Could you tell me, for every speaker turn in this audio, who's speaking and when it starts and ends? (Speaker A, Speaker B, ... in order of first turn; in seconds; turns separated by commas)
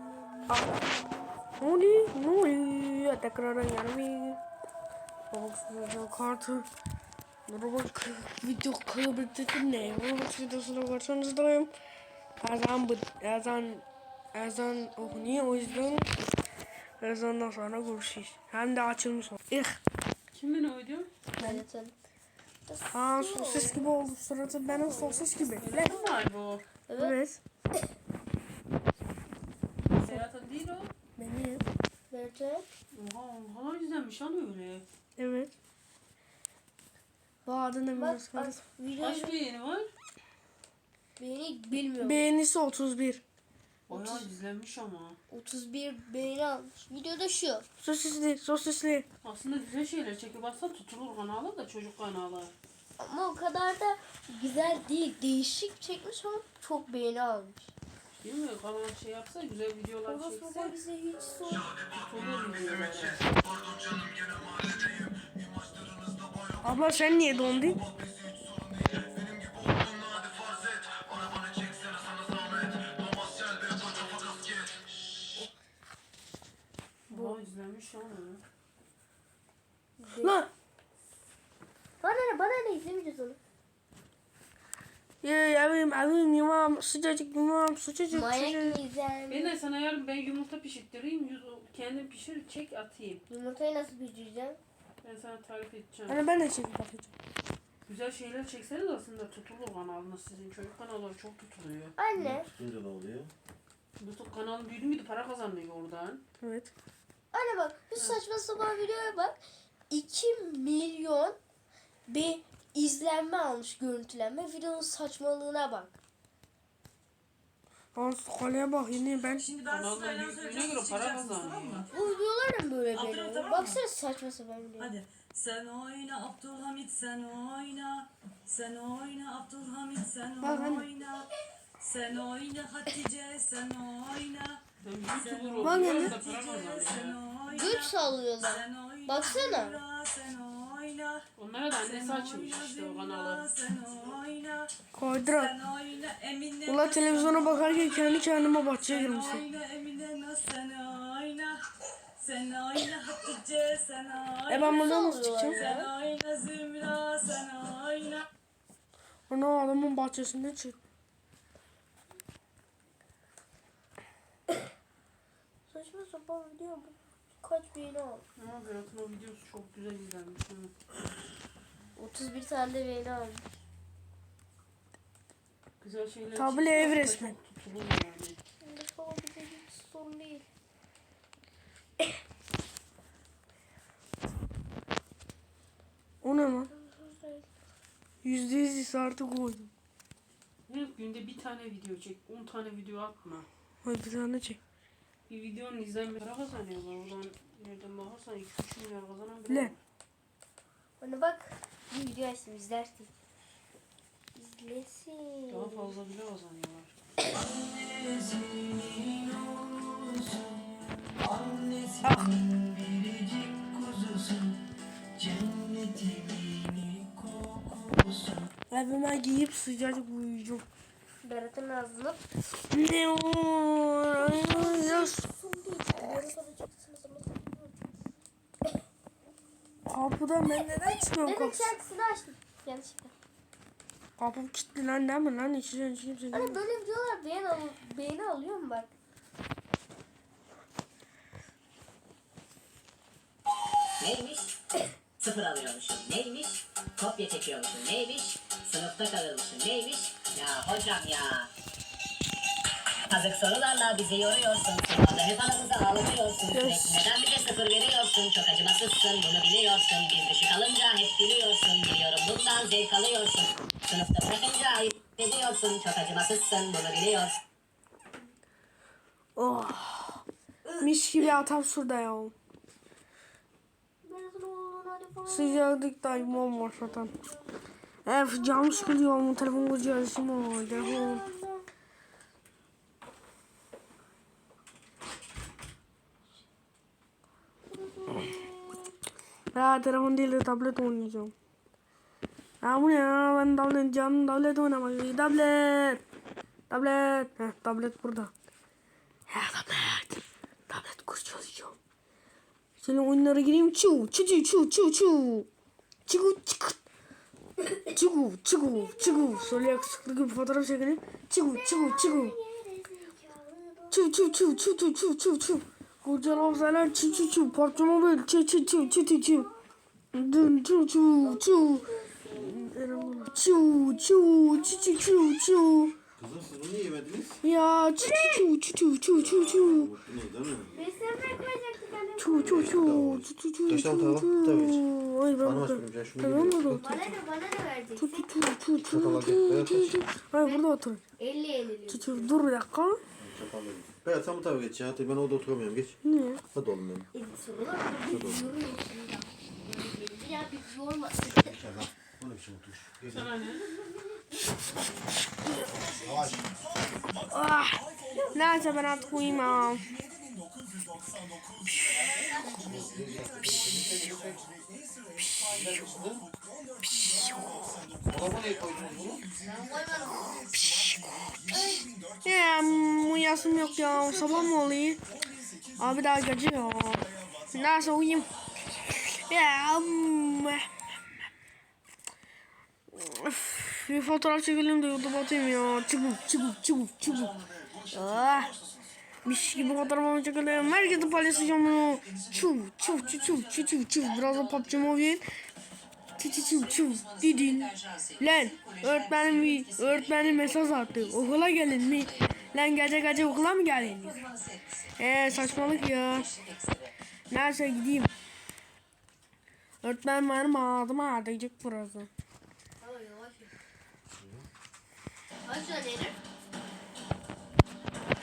Speaker A: 0.3-1.2, Speaker B: 0.5-0.8, Speaker B: 1.6-4.4, Speaker B: 5.3-6.7, Speaker B: 7.5-11.7, Speaker B: 12.4-16.2, Speaker B: 17.0-19.8, Speaker C: 20.3-21.1, Speaker B: 21.4-21.6, Speaker A: 21.4-21.9, Speaker A: 22.7-23.9, Speaker B: 22.9-26.0, Speaker A: 24.7-25.3, Speaker C: 25.6-26.6, Speaker A: 26.9-27.2, Speaker B: 27.0-27.4, Speaker C: 29.9-30.9, Speaker B: 31.2-31.6, Speaker A: 32.1-32.7, Speaker C: 32.9-34.9, Speaker B: 35.2-35.5, Speaker B: 37.5-38.6, Speaker A: 37.9-39.4, Speaker C: 39.0-39.9, Speaker A: 41.2-42.2, Speaker B: 42.0-43.2, Speaker C: 43.9-45.2, Speaker A: 43.9-44.3, Speaker A: 45.3-47.7, Speaker B: 47.8-49.1, Speaker C: 49.2-52.5, Speaker A: 53.0-57.7, Speaker C: 58.2-60.8, Speaker A: 60.1-61.8, Speaker C: 61.9-63.4, Speaker D: 63.5-63.9, Speaker B: 66.6-67.8, Speaker E: 71.6-72.2, Speaker E: 73.5-74.8, Speaker C: 77.1-78.4, Speaker B: 77.1-77.4, Speaker A: 80.0-80.4, Speaker B: 80.2-80.5, Speaker A: 82.0-83.4, Speaker B: 85.2-88.8, Speaker A: 88.1-89.5, Speaker C: 89.3-93.2, Speaker A: 93.3-94.6, Speaker C: 95.0-96.2, Speaker B: 96.1-97.1, Speaker C: 97.9-102.0, Speaker A: 102.0-102.5, Speaker E: 102.2-103.3, Speaker C: 104.0-106.2, Speaker B: 106.4-106.7, Speaker A: 107.3-111.4, Speaker A: 112.1-116.0, Speaker B: 118.0-119.5, Speaker F: 119.3-121.9, Speaker C: 119.6-121.8, Speaker A: 121.9-125.0, Speaker F: 122.9-123.8, Speaker F: 124.8-131.3, Speaker B: 130.4-130.9, Speaker F: 131.8-144.7, Speaker C: 134.8-137.2, Speaker B: 135.6-136.2, Speaker A: 137.5-139.8, Speaker C: 141.4-143.5, Speaker B: 144.9-145.6, Speaker F: 145.3-151.6, Speaker B: 146.7-149.4, Speaker F: 152.2-155.0, Speaker B: 154.5-155.6, Speaker A: 154.6-155.9, Speaker F: 155.5-158.3, Speaker B: 159.3-160.8, Speaker A: 165.7-168.2, Speaker C: 168.4-170.7, Speaker A: 172.0-173.4, Speaker C: 175.8-178.4, Speaker B: 176.3-177.3, Speaker A: 178.6-180.5, Speaker B: 186.2-186.7, Speaker A: 186.5-187.5, Speaker B: 188.2-189.7, Speaker C: 190.7-193.5, Speaker B: 193.8-194.6, Speaker C: 195.3-199.8, Speaker B: 199.5-199.8, Speaker A: 201.0-203.1, Speaker A: 204.3-205.9, Speaker C: 205.5-206.9, Speaker D: 207.4-210.4, Speaker D: 211.3-211.9, Speaker B: 212.0-212.5, Speaker D: 212.4-214.5, Speaker D: 215.3-218.3, Speaker B: 218.7-220.7, Speaker A: 221.2-222.2, Speaker B: 222.7-225.2, Speaker A: 224.2-227.8, Speaker B: 229.9-231.8, Speaker A: 231.2-233.1, Speaker B: 234.2-236.6, Speaker A: 236.3-238.9, Speaker G: 244.0-244.6, Speaker G: 245.2-251.5, Speaker G: 253.1-267.4, Speaker B: 256.5-257.0, Speaker B: 269.4-270.2, Speaker B: 270.8-272.3, Speaker A: 274.0-277.5, Speaker B: 275.3-277.1, Speaker B: 278.1-281.2, Speaker A: 278.4-281.6, Speaker A: 287.7-288.8, Speaker B: 289.5-291.3, Speaker B: 292.6-296.0, Speaker B: 296.7-298.3, Speaker B: 299.3-301.8, Speaker B: 302.8-305.5, Speaker B: 306.1-306.8, Speaker B: 307.9-312.4, Speaker A: 308.7-310.0, Speaker A: 311.4-315.0, Speaker B: 313.9-319.5, Speaker A: 316.2-319.6, Speaker B: 320.1-321.9, Speaker A: 321.2-325.1, Speaker B: 322.5-325.9, Speaker E: 326.2-327.4, Speaker B: 327.4-329.9, Speaker A: 328.0-328.5, Speaker E: 329.1-330.8, Speaker A: 330.7-332.6, Speaker B: 332.2-336.8, Speaker E: 332.4-334.9, Speaker E: 335.4-337.1, Speaker A: 336.7-338.3, Speaker B: 338.0-341.0, Speaker E: 338.8-340.1, Speaker A: 340.4-340.7, Speaker A: 341.2-342.4, Speaker B: 341.9-343.0, Speaker E: 343.2-346.0, Speaker B: 346.1-346.4, Speaker E: 346.5-347.1, Speaker A: 347.1-351.6, Speaker E: 348.1-348.5, Speaker E: 351.3-353.3, Speaker C: 353.1-353.8, Speaker E: 355.9-356.5, Speaker B: 357.3-359.9, Speaker A: 361.8-362.6, Speaker E: 362.6-364.5, Speaker E: 365.5-366.3, Speaker B: 366.9-367.7, Speaker E: 368.1-369.3, Speaker A: 369.4-370.5, Speaker B: 370.5-371.4, Speaker A: 371.5-371.9, Speaker B: 372.2-375.0, Speaker B: 375.8-378.3, Speaker B: 379.0-380.7, Speaker B: 382.9-388.5, Speaker B: 389.2-395.2, Speaker B: 396.2-404.2, Speaker B: 405.0-406.4, Speaker B: 407.3-408.1, Speaker B: 409.8-412.1, Speaker A: 412.8-413.5, Speaker E: 414.2-414.5, Speaker A: 415.4-416.2